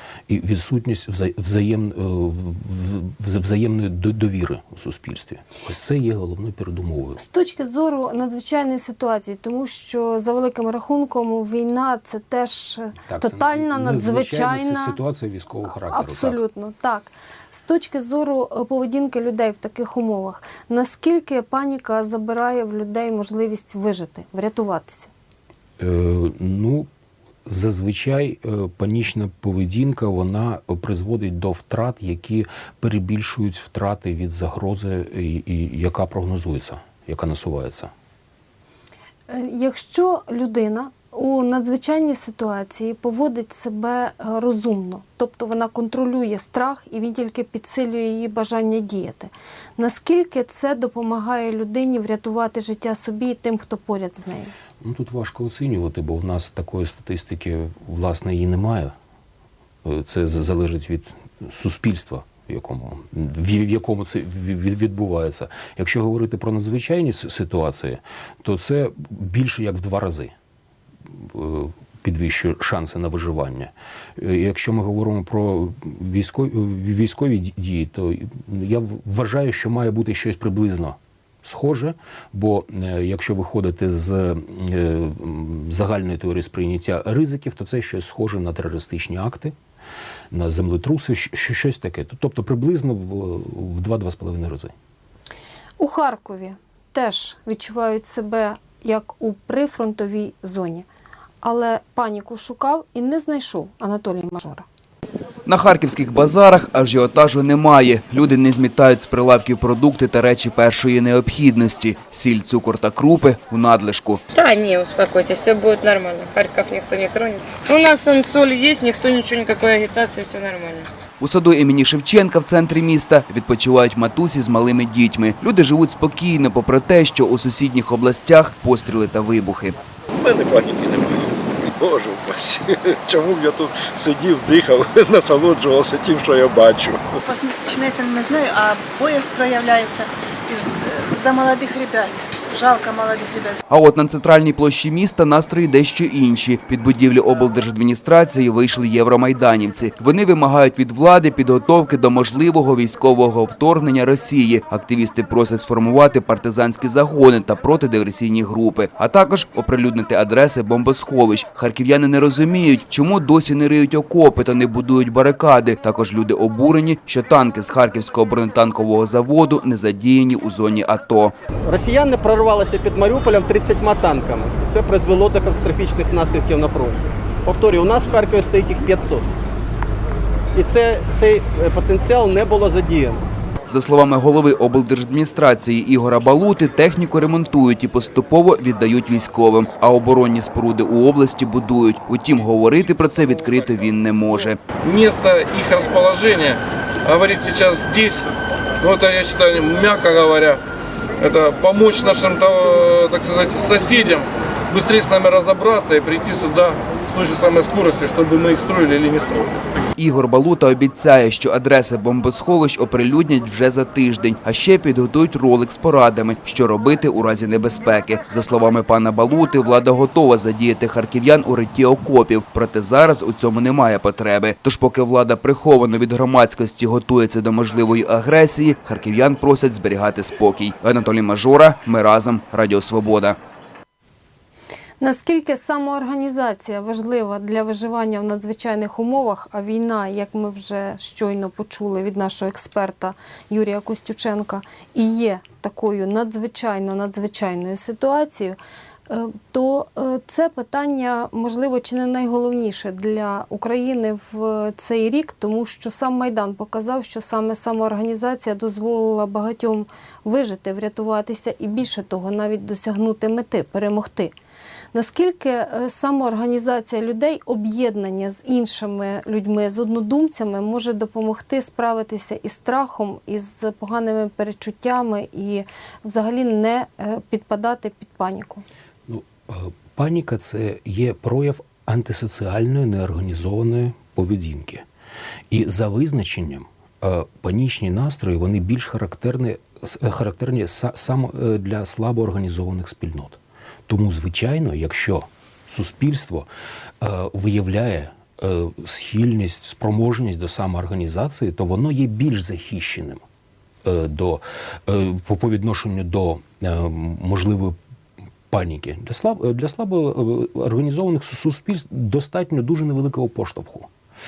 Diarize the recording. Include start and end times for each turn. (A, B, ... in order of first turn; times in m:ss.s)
0:00.3-0:07.2 A
0:07.2-0:15.0 B
0:13.0-0:16.4 A
0:15.7-0:25.1 B
0:25.8-0:26.9 A
0:27.4-0:37.9 A
0:39.3-0:54.5 B
0:54.8-0:58.9 A
0:59.8-1:10.3 A
1:11.1-1:29.5 A
1:30.3-1:34.7 A
1:35.8-1:40.9 B
1:41.4-1:44.6 B
1:45.4-1:54.2 C
1:54.3-2:00.9 D
2:01.2-2:09.8 C
2:10.2-2:17.2 E
2:17.2-2:23.6 F
2:23.7-2:51.3 C
2:51.7-2:59.2 G
3:00.5-3:03.2 G
3:03.7-3:14.6 C
3:14.8-3:18.2 H
3:18.8-3:20.6 H
3:21.2-3:29.5 H
3:30.0-3:53.4 C
3:55.0-4:08.6 B
4:09.1-4:24.3 B
4:24.9-4:38.6 B
4:39.1-4:44.8 A
4:45.5-4:56.5 A
4:57.0-5:03.2 A
5:03.8-5:07.8 A
5:08.5-5:13.9 A